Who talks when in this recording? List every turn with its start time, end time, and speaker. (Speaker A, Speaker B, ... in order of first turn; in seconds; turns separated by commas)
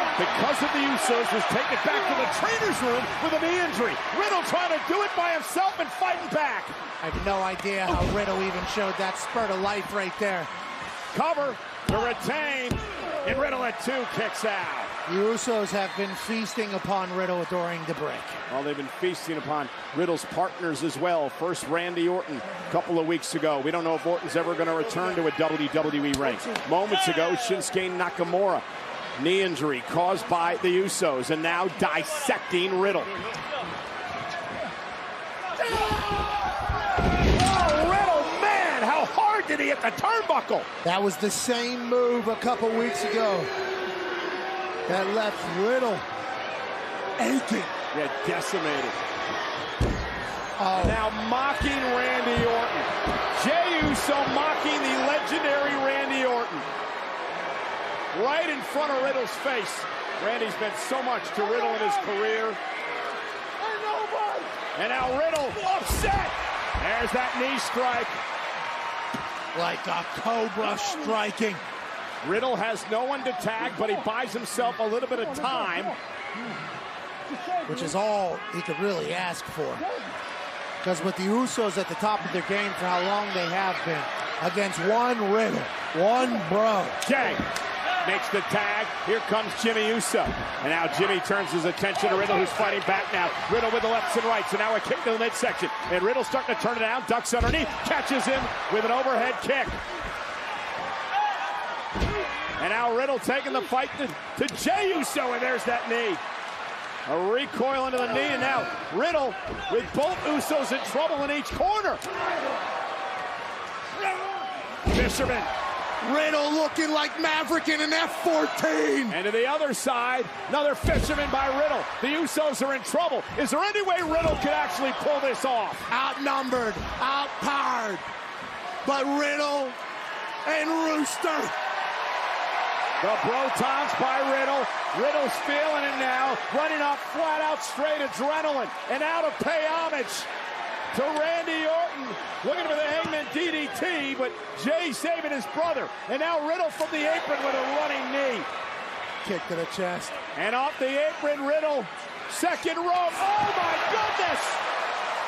Speaker A: 0.1-6.7, Speaker B: 7.0-10.5, Speaker A: 11.1-14.9, Speaker B: 15.1-18.4, Speaker A: 18.5-28.6, Speaker A: 29.2-33.1, Speaker A: 37.2-40.7, Speaker B: 40.8-43.5, Speaker B: 44.9-46.0, Speaker B: 47.2-47.7, Speaker A: 47.9-49.0, Speaker B: 50.6-51.0, Speaker A: 50.8-56.6, Speaker A: 58.1-62.6, Speaker B: 63.7-64.5, Speaker A: 64.7-68.2, Speaker B: 69.5-71.6, Speaker A: 72.2-76.0, Speaker B: 77.6-79.8, Speaker B: 80.8-87.0, Speaker A: 87.0-87.4, Speaker A: 88.0-99.8, Speaker A: 102.6-106.2, Speaker A: 107.1-112.0, Speaker A: 114.9-115.5, Speaker B: 116.0-119.2, Speaker A: 119.1-125.9, Speaker B: 125.9-128.0, Speaker B: 128.8-129.8, Speaker B: 130.4-131.5, Speaker A: 133.0-140.3, Speaker A: 140.9-148.5, Speaker B: 149.2-150.2, Speaker A: 150.3-154.6